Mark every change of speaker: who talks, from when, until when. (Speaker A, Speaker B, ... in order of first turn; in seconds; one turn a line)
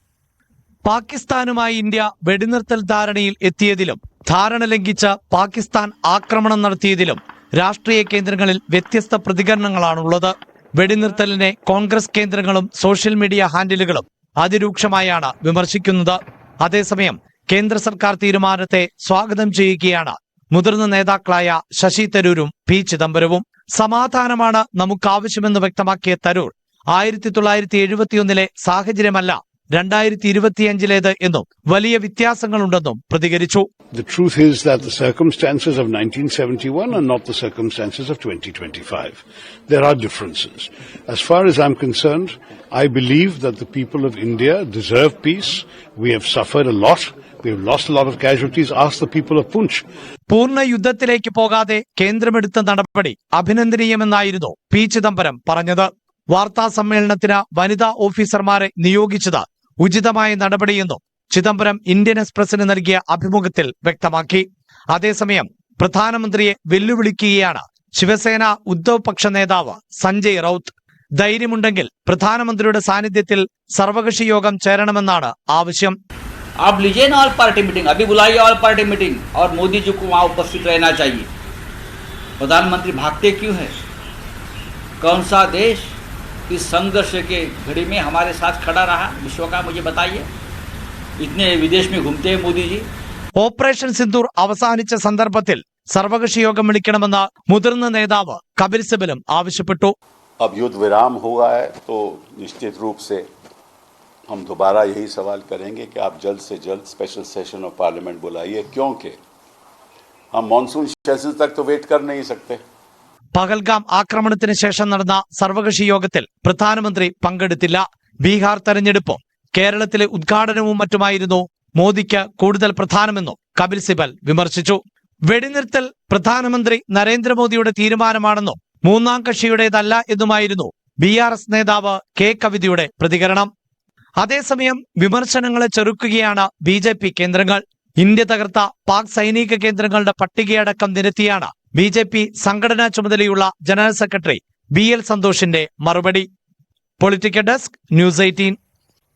Speaker A: 0.8-33.7
Speaker B: 33.9-49.8
Speaker A: 50.3-76.0
Speaker C: 76.6-81.3
Speaker C: 82.4-83.8
Speaker C: 85.0-86.0
Speaker C: 86.5-90.3
Speaker C: 91.2-92.9
Speaker A: 93.4-99.9
Speaker D: 100.4-103.3
Speaker D: 104.3-109.2
Speaker D: 110.3-112.6
Speaker A: 113.3-133.5
Speaker A: 134.2-146.3
Speaker A: 147.0-148.6